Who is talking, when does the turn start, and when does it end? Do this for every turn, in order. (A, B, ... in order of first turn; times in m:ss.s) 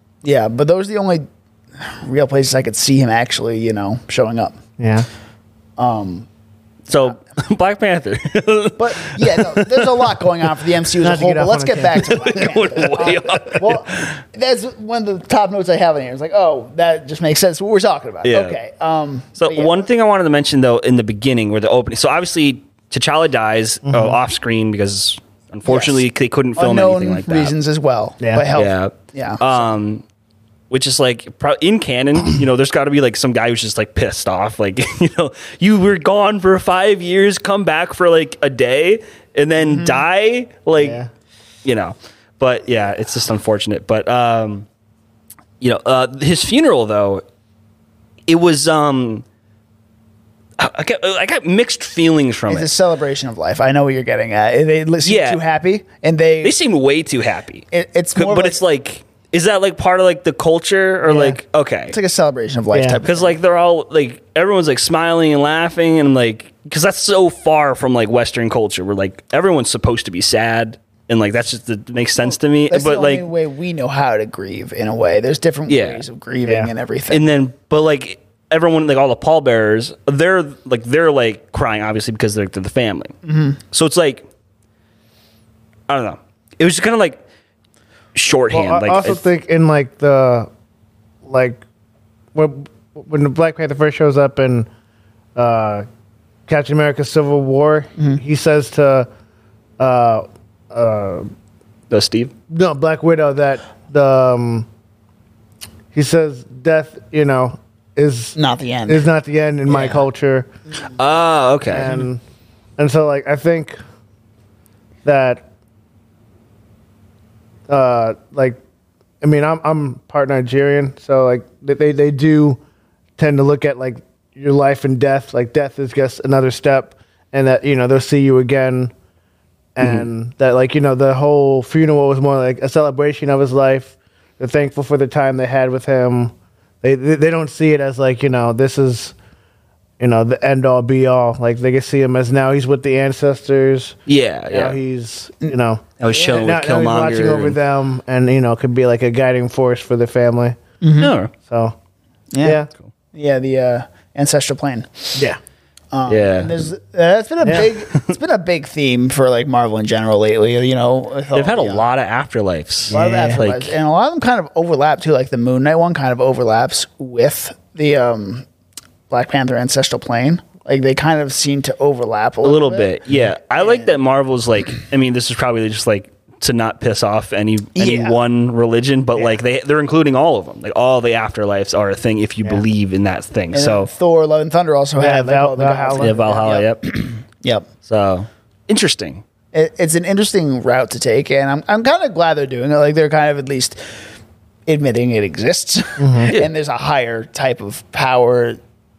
0:00.2-0:01.2 A
0:01.8-0:04.6 A
0:04.8-0:05.1 B
0:05.8-0:06.3 A
0:06.9-0:10.2 C
0:08.8-0:19.9 A
0:11.0-0:12.2 B
0:12.0-0:14.2 C
0:18.2-0:18.6 C
0:19.4-0:27.5 C
0:23.9-0:24.2 B
0:25.7-0:26.0 A
0:26.6-0:29.6 A
0:28.5-0:30.0 C
0:30.7-0:41.0 C
0:39.6-0:40.0 A
0:40.8-0:41.1 B
0:41.6-0:44.7 C
0:45.6-0:47.2 C
0:48.3-0:49.2 C
0:50.6-0:52.7 C
0:52.5-0:56.6 A
0:55.0-0:55.4 C
0:56.4-1:02.0 C
0:57.7-0:58.6 A
1:01.1-1:01.4 A
1:01.9-1:03.4 A
1:02.7-1:03.0 B
1:03.0-1:13.3 C
1:12.7-1:17.2 A
1:15.7-1:16.0 C
1:16.5-1:16.7 B
1:17.1-1:23.1 C
1:23.2-1:23.6 A
1:23.7-1:24.2 C
1:25.9-1:27.2 C
1:28.1-1:29.2 C
1:28.5-1:30.5 B
1:31.2-1:31.6 B
1:32.4-1:34.7 B
1:35.4-1:35.9 B
1:36.5-1:39.1 B
1:39.8-1:41.3 B
1:41.9-1:42.3 C
1:42.5-1:44.7 B
1:45.9-1:50.5 B
1:48.4-1:49.0 A
1:49.7-1:50.1 A
1:51.0-1:52.1 C
1:51.7-1:52.2 B
1:52.8-1:53.8 B
1:55.0-1:55.4 B
1:57.7-1:58.6 B
1:59.2-2:02.6 B
2:03.2-2:08.9 B
2:09.8-2:19.1 B
2:09.8-2:10.1 C
2:20.0-2:24.0 B
2:24.1-2:24.8 C
2:24.5-2:30.6 B
2:26.0-2:27.6 C
2:30.8-2:31.1 A
2:31.0-2:31.3 C
2:31.4-2:31.7 B
2:32.3-2:32.6 A
2:32.4-2:32.7 B
2:33.1-2:35.3 A
2:35.9-2:41.9 A
2:36.1-2:36.5 C
2:37.4-2:37.7 B
2:41.3-2:43.7 C
2:42.9-2:43.4 B
2:42.9-2:48.5 A
2:49.1-2:53.0 A
2:52.4-3:03.9 C
2:53.5-2:53.9 A
2:57.8-2:58.2 A
3:03.5-3:07.7 A
3:05.0-3:06.2 B
3:06.0-3:06.9 C
3:07.8-3:09.2 C
3:09.5-3:13.8 A
3:14.7-3:18.6 A
3:16.0-3:16.3 B
3:16.2-3:16.5 C